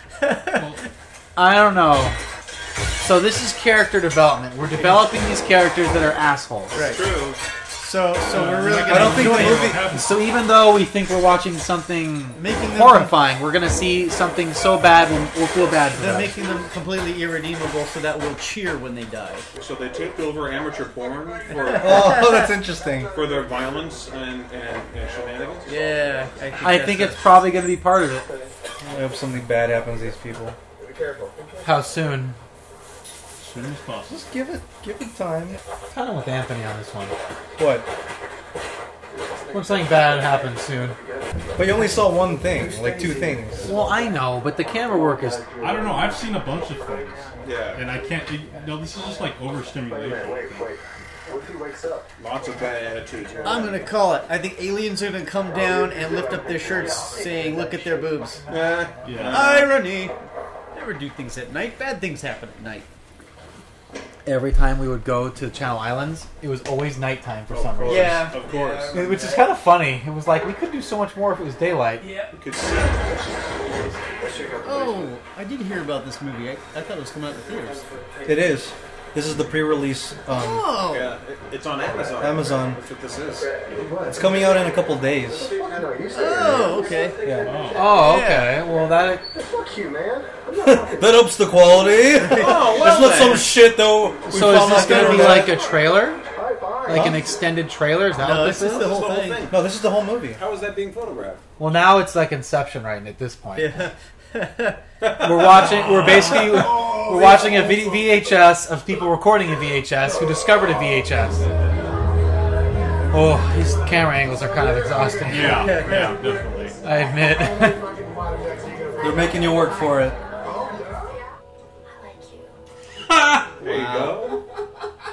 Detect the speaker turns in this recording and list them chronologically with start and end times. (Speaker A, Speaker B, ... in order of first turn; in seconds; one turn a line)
Speaker A: 0.2-0.7
Speaker B: 0.5-0.8
Speaker C: 1.4-2.2
Speaker C: 3.0-6.8
Speaker A: 6.7-7.0
Speaker D: 6.7-7.4
Speaker A: 7.8-9.7
Speaker B: 8.2-10.3
Speaker E: 8.8-9.9
Speaker C: 9.1-16.3
Speaker A: 12.3-13.1
Speaker A: 15.9-19.5
Speaker D: 19.5-22.3
Speaker A: 21.5-22.5
Speaker E: 21.8-23.2
Speaker D: 23.1-26.1
Speaker A: 25.7-27.3
Speaker C: 26.6-28.3
Speaker E: 28.9-30.6
Speaker C: 31.6-32.4
Speaker B: 33.4-34.2
Speaker E: 34.1-35.6
Speaker C: 35.9-37.1
Speaker E: 37.5-37.9
Speaker C: 39.5-41.0
Speaker E: 41.5-43.8
Speaker C: 43.6-45.4
Speaker B: 45.6-50.8
Speaker D: 47.4-47.8
Speaker D: 52.2-53.9
Speaker A: 53.4-58.4
Speaker D: 58.5-59.7
Speaker B: 59.0-59.8
Speaker A: 59.2-60.1
Speaker A: 60.7-62.9
Speaker C: 64.2-68.3
Speaker D: 67.5-69.0
Speaker A: 67.8-69.3
Speaker B: 67.9-68.8
Speaker C: 68.9-72.1
Speaker D: 72.3-74.6
Speaker A: 74.6-78.0
Speaker E: 78.2-80.7
Speaker A: 80.3-81.2
Speaker D: 80.8-83.5
Speaker E: 82.2-82.8
Speaker E: 84.0-85.9
Speaker A: 86.1-87.2
Speaker E: 87.2-87.5
Speaker B: 87.4-87.9
Speaker C: 87.7-89.4
Speaker A: 87.8-88.6
Speaker E: 90.6-95.6
Speaker A: 92.1-92.7
Speaker D: 92.3-93.5
Speaker C: 94.3-96.2
Speaker A: 94.7-95.6
Speaker C: 96.8-99.0
Speaker E: 96.8-97.3
Speaker A: 98.1-99.5
Speaker D: 98.6-99.7
Speaker E: 99.5-100.4
Speaker D: 100.3-101.4
Speaker C: 101.6-103.7
Speaker A: 103.5-104.8
Speaker D: 105.0-106.9
Speaker C: 105.2-111.5
Speaker C: 113.1-116.0
Speaker B: 115.2-116.8
Speaker A: 115.7-116.2
Speaker C: 116.8-117.9
Speaker E: 119.0-120.2
Speaker D: 123.5-124.4